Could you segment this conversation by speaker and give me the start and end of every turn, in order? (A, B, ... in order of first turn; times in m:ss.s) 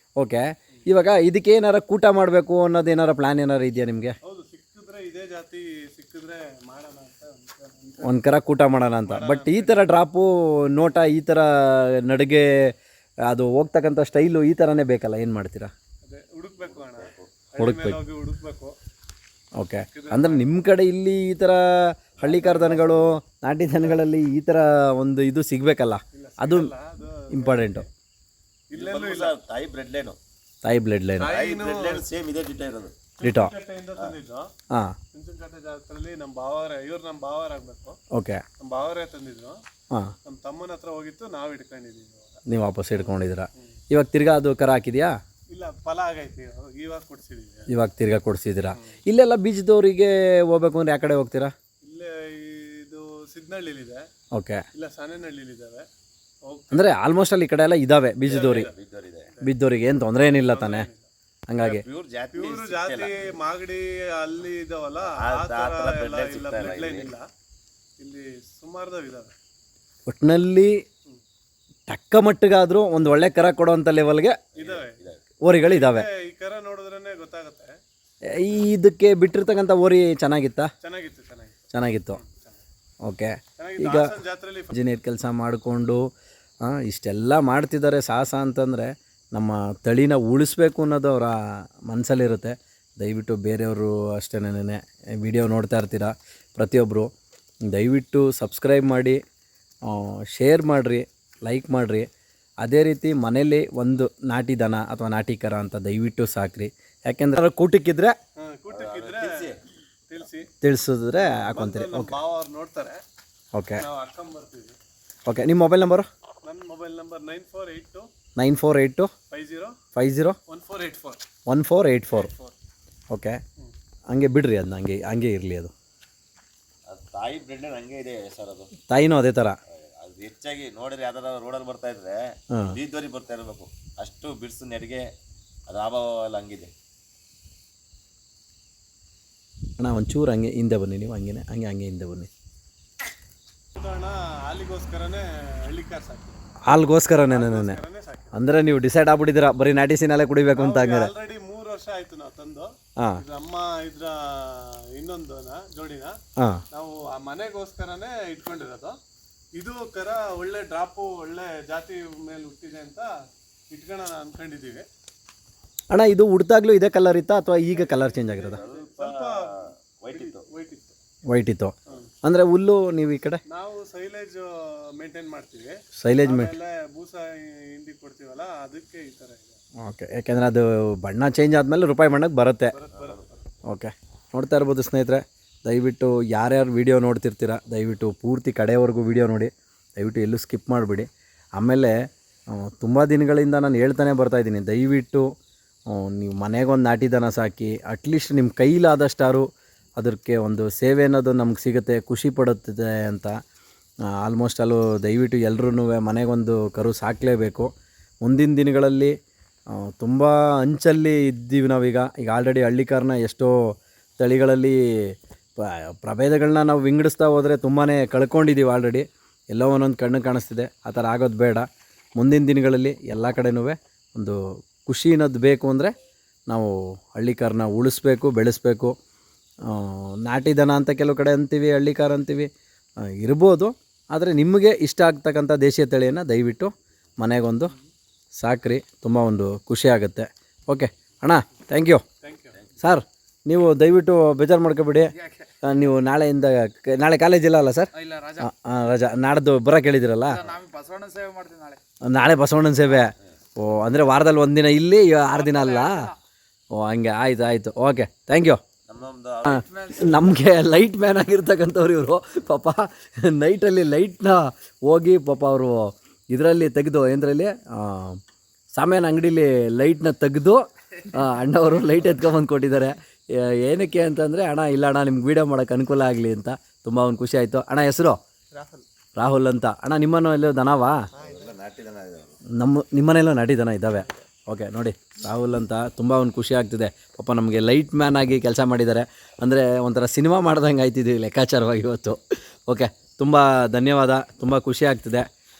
0:00.2-0:04.2 A
0:04.2-0:08.2 B
0:08.0-0:12.7 A
0:09.0-0:09.8 B
0:13.2-0:15.7 A
0:16.0-0:18.7 B
0:16.7-0:17.3 C
0:17.6-0:18.0 A
0:19.6-0:26.7 A
0:19.9-0:20.5 B
0:22.2-0:23.0 C
0:26.1-0:27.9 B
0:27.3-0:27.9 A
0:28.7-0:29.3 B
0:28.8-0:30.2 C
0:30.6-0:31.3 A
0:31.2-0:32.0 B
0:31.3-0:33.0 C
0:33.2-0:34.5 B
0:33.2-0:33.5 A
0:35.1-0:38.0 B
0:38.1-0:38.4 A
0:38.6-0:39.6 B
0:40.2-0:43.2 B
0:42.5-0:45.1 A
0:45.5-0:47.7 B
0:47.7-0:51.5 A
0:51.8-0:54.0 B
0:54.3-0:54.6 A
0:54.7-0:55.8 B
0:56.5-0:56.9 B
0:56.7-0:58.7 A
0:58.3-0:58.7 B
0:58.3-0:59.3 C
0:59.4-1:00.9 A
1:00.2-1:01.1 B
1:01.5-1:01.8 A
1:01.6-1:03.1 C
1:02.3-1:07.2 B
1:05.0-1:07.1 C
1:08.0-1:09.3 B
1:10.1-1:10.7 A
1:11.9-1:14.4 A
1:14.5-1:15.2 C
1:14.6-1:15.0 B
1:15.4-1:16.0 A
1:15.6-1:17.7 B
1:18.2-1:20.7 A
1:20.8-1:21.5 B
1:21.7-1:22.2 A
1:22.1-1:22.6 B
1:23.0-1:24.1 A
1:23.6-1:24.7 B
1:24.7-1:26.0 A
1:26.6-1:37.1 A
1:37.6-1:39.2 A
1:39.8-1:42.0 A
1:42.6-1:48.1 A
1:48.4-1:49.4 B
1:48.7-1:49.6 C
1:50.1-1:50.5 B
1:50.6-1:52.1 A
1:51.3-1:53.0 B
1:53.5-1:53.8 A
1:53.8-1:54.8 B
1:55.2-1:56.1 A
1:56.4-1:58.1 B
1:58.4-1:59.1 A
1:59.3-1:59.7 B
1:59.9-2:00.4 A
2:00.5-2:01.2 B
2:01.5-2:02.3 A
2:02.1-2:02.5 B
2:03.1-2:03.4 A
2:04.1-2:05.7 A
2:06.9-2:08.7 C
2:08.9-2:09.6 A
2:09.7-2:15.0 C
2:15.7-2:16.7 C
2:19.8-2:22.3 A
2:23.8-2:26.6 B
2:26.6-2:27.8 A
2:27.3-2:28.4 B
2:28.3-2:31.1 A
2:30.6-2:36.2 B
2:36.4-2:36.6 A
2:36.7-2:39.0 B
2:39.6-2:43.1 B
2:43.7-2:44.8 B
2:45.9-2:48.6 A
2:47.7-2:51.0 B
2:48.5-2:50.4 C
2:51.3-2:53.4 A
2:53.5-2:54.5 B
2:55.0-2:59.6 B
2:56.0-2:56.5 A
2:59.8-3:02.7 A
3:02.7-3:03.5 B
3:03.7-3:12.0 A
3:12.5-3:15.2 A
3:15.9-3:19.4 A
3:20.0-3:23.3 A
3:24.2-3:27.7 A
3:28.2-3:29.1 A
3:29.7-3:33.5 A
3:34.2-3:41.6 A
3:42.2-3:45.9 A
3:46.5-3:48.9 A
3:49.6-3:52.5 A
3:53.0-3:57.7 A
3:58.4-4:02.0 A
4:02.2-4:02.6 B
4:02.8-4:05.1 A
4:05.2-4:05.5 D
4:05.6-4:10.4 A
4:08.0-4:08.5 D
4:10.3-4:11.8 D
4:12.0-4:16.1 A
4:15.3-4:16.1 D
4:16.7-4:18.6 A
4:18.9-4:19.7 C
4:19.5-4:20.2 D
4:19.5-4:28.2 A
4:28.7-4:38.2 A
4:39.2-4:41.0 A
4:41.2-4:42.4 C
4:42.6-4:55.2 A